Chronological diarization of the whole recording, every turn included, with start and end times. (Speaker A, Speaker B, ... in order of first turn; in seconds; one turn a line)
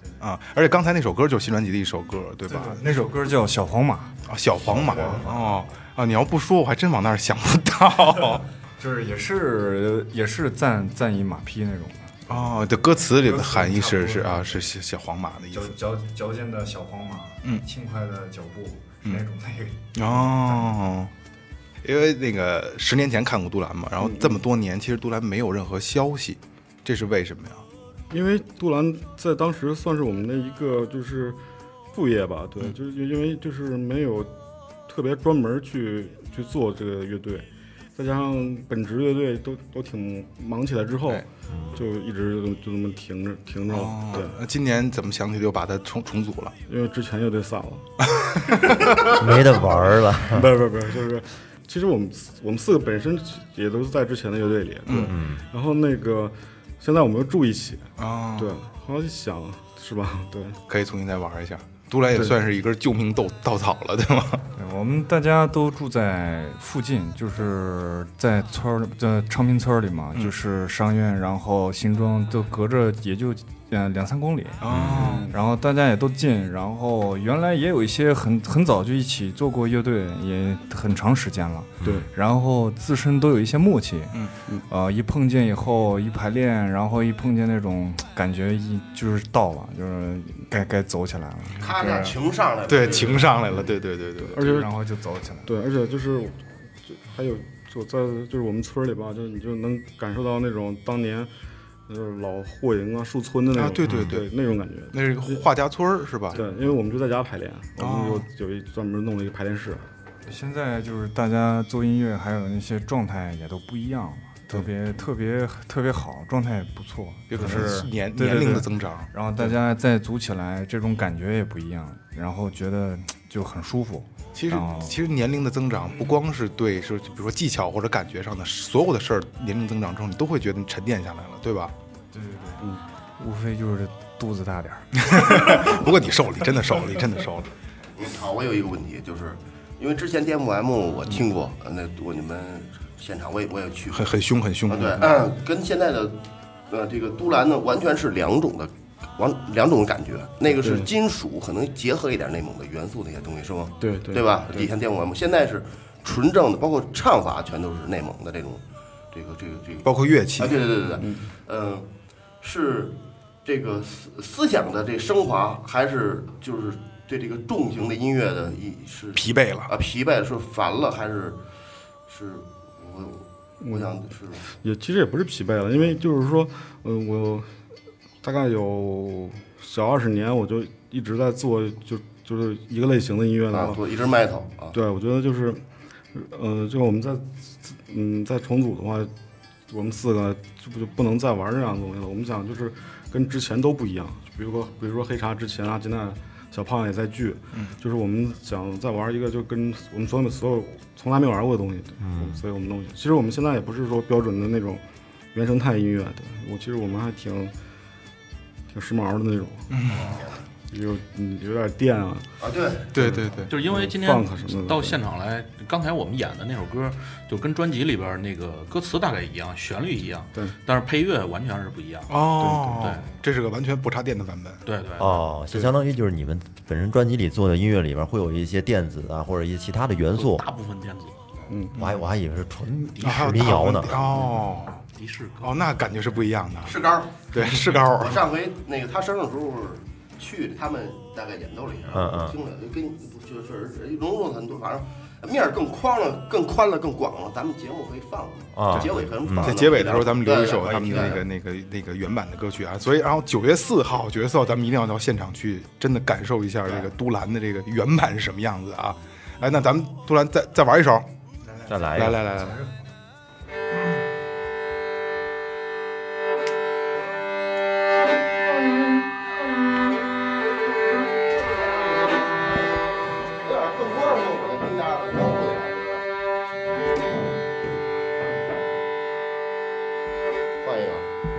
Speaker A: 0.2-3.3
Speaker B: 2.5-5.5
Speaker A: 4.2-8.4
Speaker B: 8.8-14.6
Speaker A: 12.3-15.8
Speaker B: 15.5-20.7
Speaker A: 19.9-21.1
Speaker A: 21.8-27.6
Speaker C: 24.0-24.4
Speaker C: 28.1-31.4
Speaker C: 31.9-34.3
Speaker C: 34.9-44.4
Speaker D: 41.5-41.8
Speaker A: 43.7-46.5
Speaker C: 46.7-47.9
Speaker A: 48.0-49.1
Speaker D: 49.1-50.5
Speaker C: 49.4-60.6
Speaker A: 54.9-55.1
Speaker D: 55.1-55.4
Speaker A: 58.0-58.5
Speaker A: 60.7-64.4
Speaker C: 62.1-62.4
Speaker B: 64.5-92.1
Speaker A: 74.6-75.3
Speaker D: 74.7-75.1
Speaker C: 74.9-75.3
Speaker E: 91.6-93.5
Speaker A: 92.7-94.4
Speaker C: 94.2-94.7
Speaker B: 94.4-95.5
Speaker C: 95.5-101.3
Speaker C: 101.9-105.4
Speaker A: 103.5-104.3
Speaker A: 104.9-106.4
Speaker C: 106.3-109.8
Speaker A: 107.8-108.2
Speaker B: 110.3-124.9
Speaker A: 117.3-119.1
Speaker A: 124.3-131.7
Speaker B: 132.1-132.7
Speaker B: 133.2-135.7
Speaker A: 135.0-137.5
Speaker E: 138.0-144.1
Speaker A: 143.9-145.2
Speaker E: 144.7-146.2
Speaker E: 146.7-161.9
Speaker C: 150.5-150.9
Speaker C: 153.8-154.7
Speaker A: 159.8-160.7
Speaker C: 161.0-161.2
Speaker E: 162.4-171.4
Speaker A: 169.1-169.7
Speaker E: 172.1-174.4
Speaker C: 173.6-174.0
Speaker C: 174.6-177.5
Speaker C: 178.2-183.8
Speaker E: 183.5-184.8
Speaker C: 184.7-185.6
Speaker C: 186.1-189.1
Speaker C: 189.7-204.8
Speaker D: 202.0-202.4
Speaker C: 205.3-207.5
Speaker C: 208.7-209.7
Speaker A: 209.7-210.2
Speaker C: 210.7-212.3
Speaker E: 212.4-213.0
Speaker A: 212.9-213.5
Speaker C: 213.0-215.0
Speaker F: 213.5-222.2
Speaker A: 222.1-224.6
Speaker C: 222.4-222.9
Speaker F: 222.7-223.1
Speaker F: 224.6-225.3
Speaker D: 225.0-230.4
Speaker F: 230.1-231.2
Speaker C: 231.5-231.8
Speaker A: 231.7-232.0
Speaker D: 231.7-234.1
Speaker F: 232.9-233.7
Speaker A: 233.0-234.8
Speaker F: 234.9-235.6
Speaker A: 235.4-236.8
Speaker E: 236.6-251.2
Speaker A: 237.3-238.2
Speaker D: 241.9-242.3
Speaker D: 248.6-249.6
Speaker A: 248.7-261.1
Speaker E: 256.6-256.9
Speaker D: 261.7-262.2
Speaker A: 261.9-262.6
Speaker B: 262.4-262.7
Speaker E: 273.4-276.0
Speaker E: 280.6-281.1